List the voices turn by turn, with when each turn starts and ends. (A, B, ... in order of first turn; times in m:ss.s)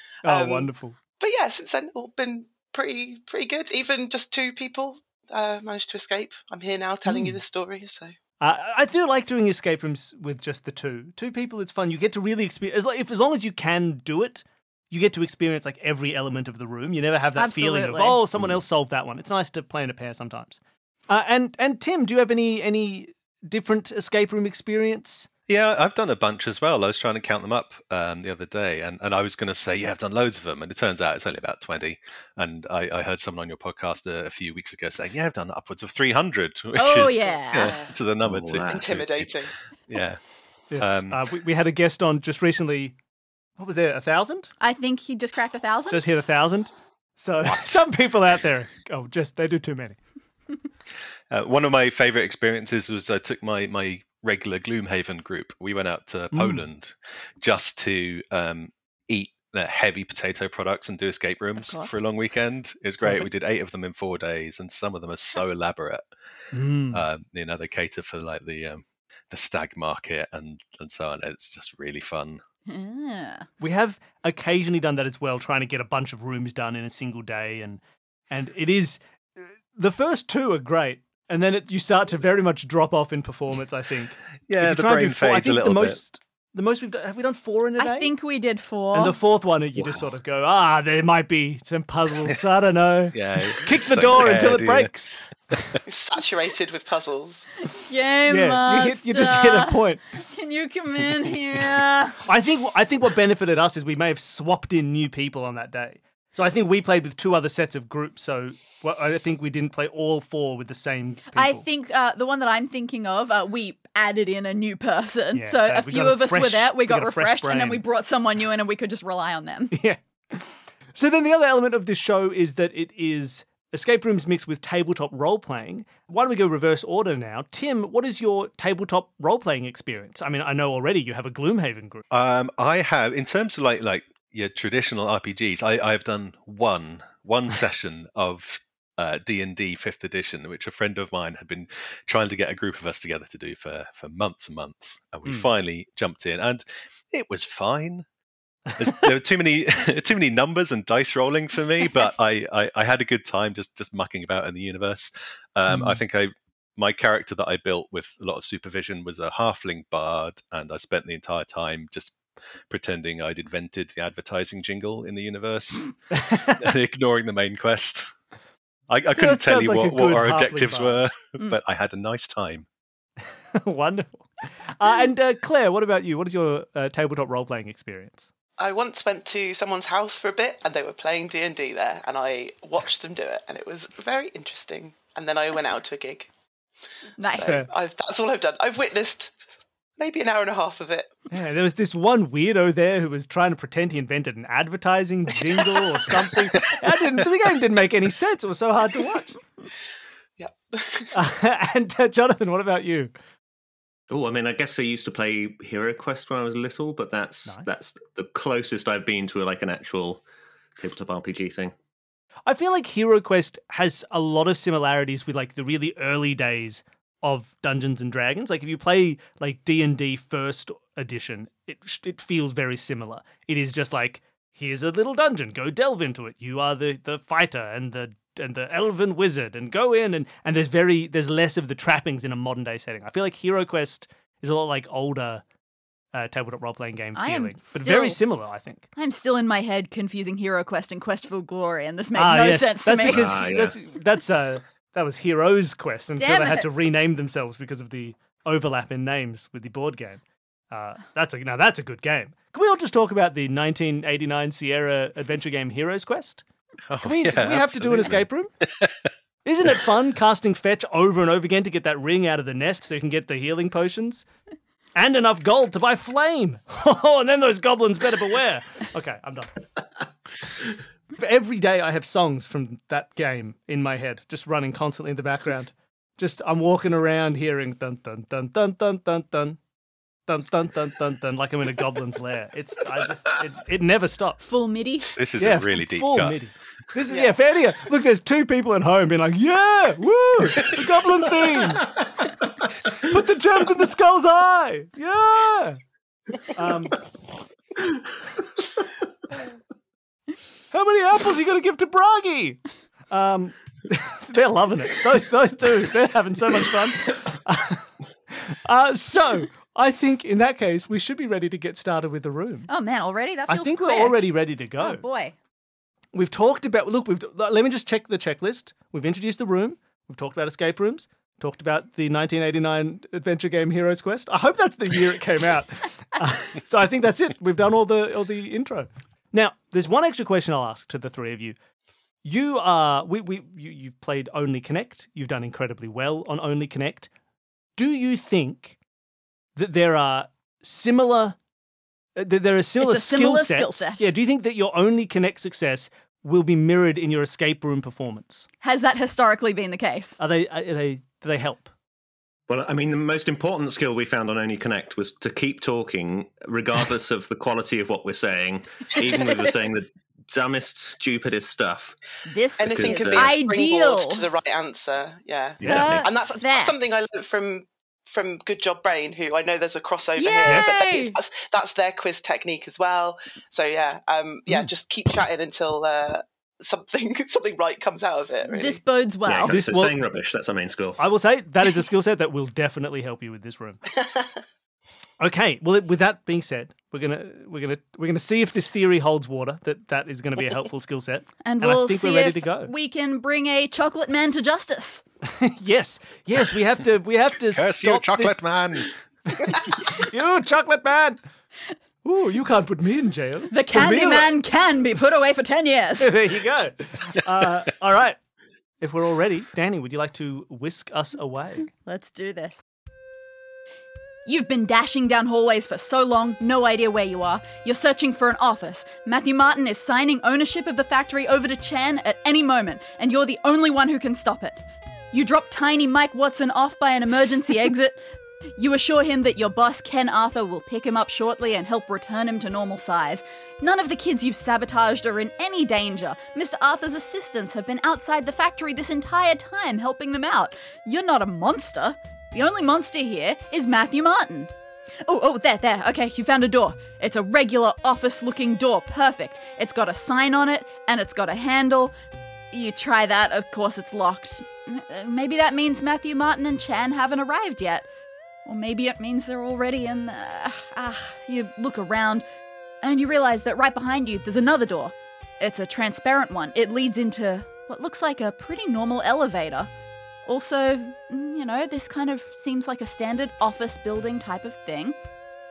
0:00.2-0:01.0 A
0:00.3-0:08.2 B
0:07.1-0:07.4 A
0:08.4-0:25.3 A
0:17.4-0:18.2 C
0:25.5-0:39.3 D
0:36.8-0:37.8 C
0:37.6-0:38.0 B
0:38.2-0:39.0 E
0:38.6-0:39.5 B
0:39.9-0:40.2 D
0:40.7-0:43.0 A
0:40.8-0:41.3 D
0:43.6-0:44.5 A
0:44.6-0:46.2 C
0:45.9-0:50.0 A
0:51.3-1:06.1 D
0:56.3-0:56.6 A
1:01.6-1:02.0 C
1:06.5-1:07.1 A
1:06.9-1:12.4 D
1:12.7-1:13.5 C
1:13.6-1:28.1 A
1:24.5-1:26.0 D
1:27.8-1:29.2 C
1:28.9-1:35.2 A
1:29.8-1:30.1 E
1:33.1-1:34.9 D
1:35.5-1:35.8 D
1:35.8-1:37.5 B
1:37.7-1:42.2 C
1:38.3-1:40.0 A
1:42.2-1:51.6 A
1:51.4-1:59.8 C
1:55.3-1:57.8 A
1:59.7-2:12.0 A
2:12.1-2:28.0 D
2:28.8-2:42.2 D
2:35.7-2:36.0 A
2:42.7-2:45.9 D
2:46.1-2:46.7 A
2:46.6-2:48.1 D
2:48.9-2:52.7 D
2:49.2-2:51.0 A
2:53.6-2:58.3 A
2:58.6-3:06.3 B
3:07.2-3:07.6 C
3:07.2-3:09.3 B
3:07.4-3:07.7 A
3:10.0-3:11.1 B
3:11.3-3:19.4 A
3:20.4-3:21.1 B
3:21.1-3:23.1 A
3:24.1-3:30.2 E
3:27.5-3:27.8 A
3:30.8-3:31.7 E
3:32.5-3:55.4 A
3:56.1-3:58.8 A
3:57.2-3:58.2 C
3:59.0-4:03.4 C
4:02.1-4:16.4 A
4:03.0-4:03.8 E
4:06.2-4:06.9 C
4:16.9-4:18.9 D
4:17.0-4:18.5 A
4:19.4-4:24.2 A
4:25.0-4:29.6 A
4:31.2-4:39.6 A
4:40.3-4:44.5 A
4:44.4-4:45.2 C
4:45.1-4:46.4 D
4:45.4-4:52.0 A
4:47.1-4:47.3 B
4:52.9-4:55.8 A
4:56.5-4:57.0 A
5:00.7-5:12.7 A
5:12.7-5:15.3 C
5:13.5-5:15.0 A
5:16.1-5:31.6 A
5:32.2-5:37.1 A
5:37.8-5:38.8 A
5:39.6-5:41.4 A
5:42.2-5:48.5 A
5:42.8-5:44.1 C
5:48.6-5:50.2 C
5:50.2-5:51.7 A
5:52.5-6:02.0 E
6:02.3-6:04.3 C
6:02.6-6:18.8 B
6:02.6-6:03.4 E
6:05.6-6:06.0 E
6:05.6-6:06.1 A
6:05.7-6:07.1 C
6:10.2-6:11.2 C
6:10.4-6:10.8 A
6:18.5-6:19.6 C
6:19.3-6:21.0 E
6:19.4-6:20.0 A
6:21.0-6:23.8 A
6:24.0-6:24.3 B
6:25.2-6:32.7 A
6:31.4-6:35.0 C
6:35.2-6:38.4 A
6:37.5-6:38.9 D
6:39.3-6:41.2 A
6:42.0-6:44.4 A
6:43.5-6:46.1 C
6:46.0-6:48.2 A
6:48.8-6:51.7 A
6:51.8-6:52.6 C
6:54.2-7:08.0 C
7:08.6-7:24.5 C
7:25.0-7:31.9 C
7:32.5-7:37.9 C
7:38.4-7:42.2 C
7:42.8-7:49.7 C
7:50.2-7:55.0 C